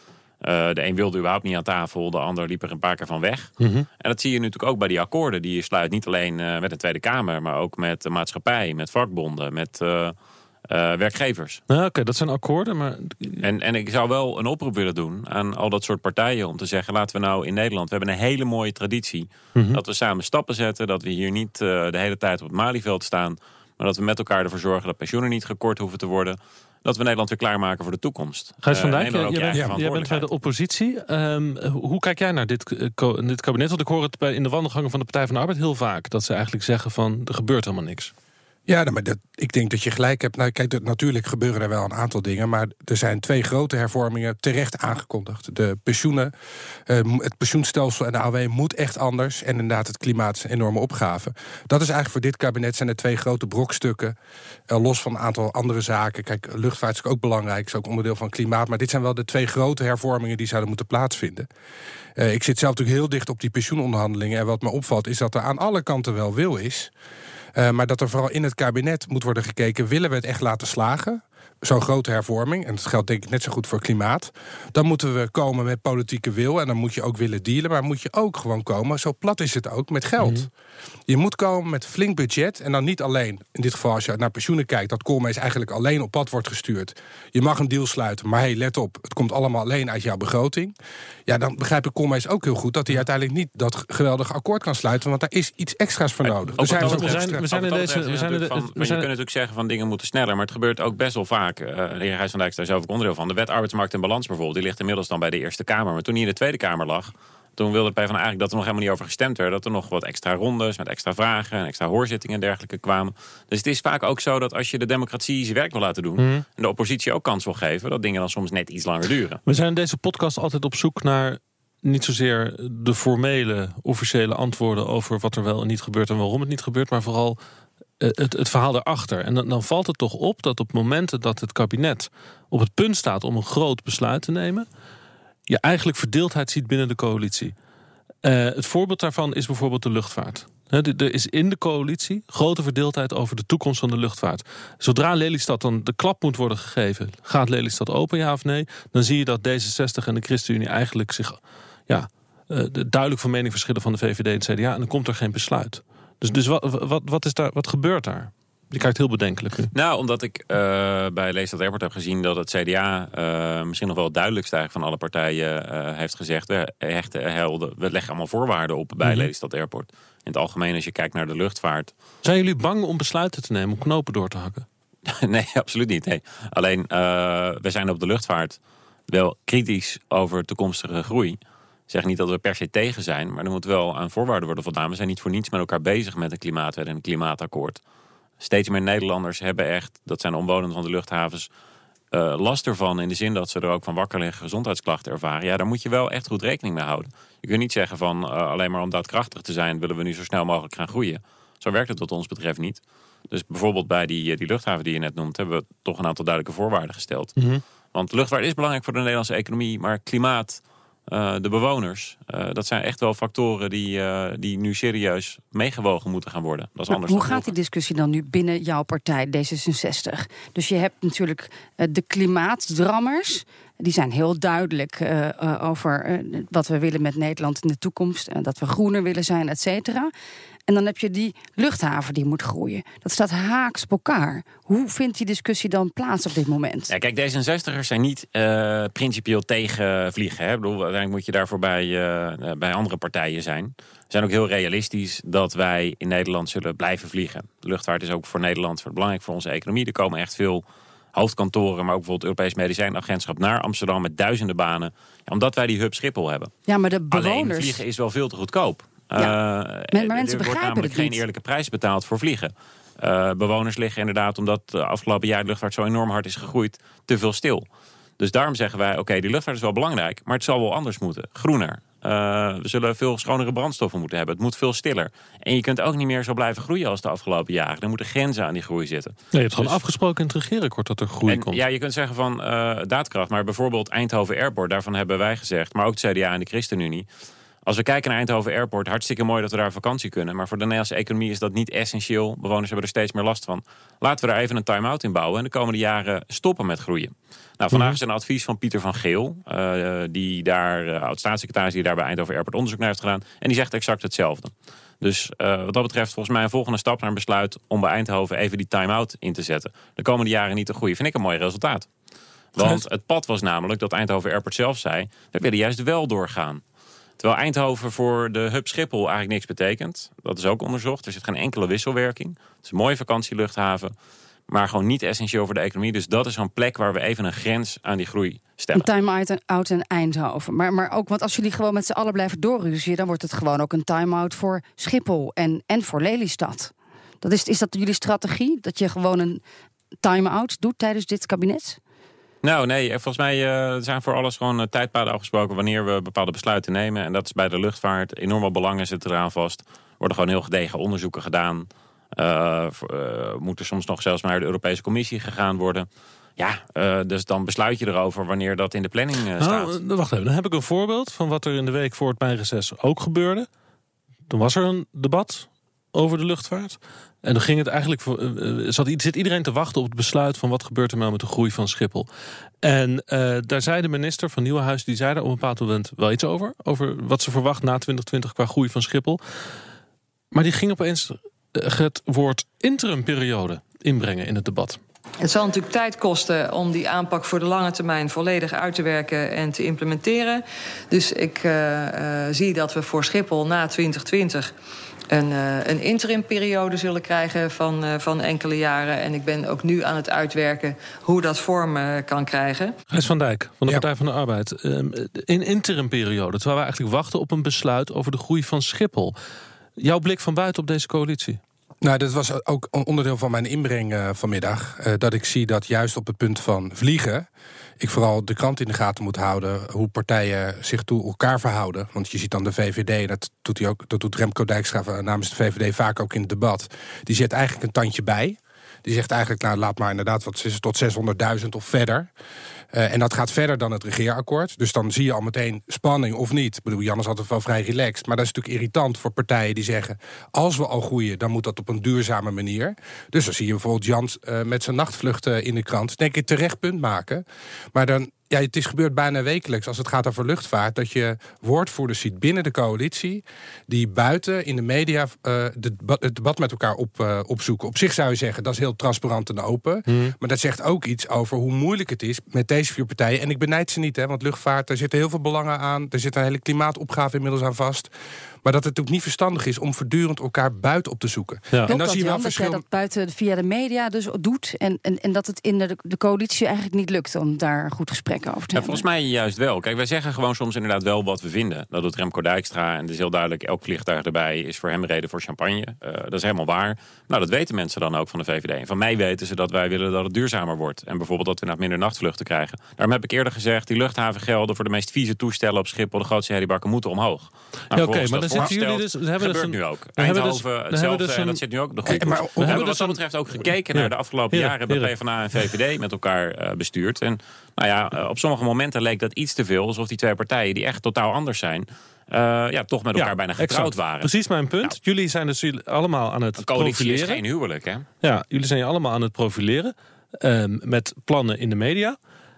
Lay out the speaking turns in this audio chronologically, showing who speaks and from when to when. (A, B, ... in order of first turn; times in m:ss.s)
0:00.4-0:10.2 A
0:03.6-0:03.9 B
0:10.7-0:11.6 A
0:11.7-0:13.4 B
0:13.4-0:30.3 A
0:19.6-0:19.8 B
0:28.6-0:38.1 B
0:29.5-0:29.8 C
0:38.7-0:46.3 C
0:46.9-0:54.2 C
0:54.7-1:01.5 C
1:02.2-1:06.9 C
1:07.6-1:20.5 C
1:20.2-1:20.5 B
1:21.1-1:30.7 C
1:31.2-1:37.4 C
1:36.2-1:59.4 A
1:36.6-1:39.1 B
1:56.2-1:56.4 B
1:59.5-2:07.4 B
2:08.0-2:14.7 B
2:15.5-2:17.5 B
2:18.2-2:39.7 B
2:39.7-2:51.9 A
2:49.0-2:49.3 B
2:52.2-2:54.7 B
2:55.1-2:58.6 A
2:59.1-3:01.4 A
3:01.9-3:07.8 A
3:08.4-3:11.5 A
3:12.1-3:27.3 A
3:27.4-3:27.6 B
3:27.9-3:37.5 A
3:36.9-3:50.1 D
3:50.7-3:56.9 D
3:56.9-4:16.5 A
4:16.7-4:17.8 D
4:17.1-4:27.6 A
4:19.9-4:21.2 D
4:28.2-4:39.8 A
4:39.3-4:41.6 B
4:41.3-4:47.1 A
4:47.7-5:11.9 A
4:57.7-4:58.0 B
5:12.6-5:16.6 A
5:12.6-5:12.8 B
5:17.2-5:23.9 A
5:24.5-5:28.9 A
5:28.7-5:39.4 D
5:40.0-5:41.8 D
5:42.4-5:55.9 A
5:56.4-5:59.7 A
5:59.4-6:03.5 B
6:04.3-6:12.1 B
6:12.6-6:19.2 B
6:20.3-6:24.8 B
6:25.2-6:34.5 E
6:35.1-6:42.8 E
6:42.9-6:49.2 B
6:49.8-6:51.4 B
6:51.8-6:57.3 C
6:57.8-7:12.1 C
7:12.7-7:47.9 C
7:39.9-7:40.1 B
7:48.4-7:52.6 C
7:51.7-7:58.8 D
7:58.5-8:34.1 A
8:17.7-8:21.4 B
8:21.9-8:22.7 C
8:22.4-8:22.9 B
8:23.7-8:24.9 B
8:32.9-8:37.2 B
8:36.4-8:37.9 A
8:38.0-8:42.0 B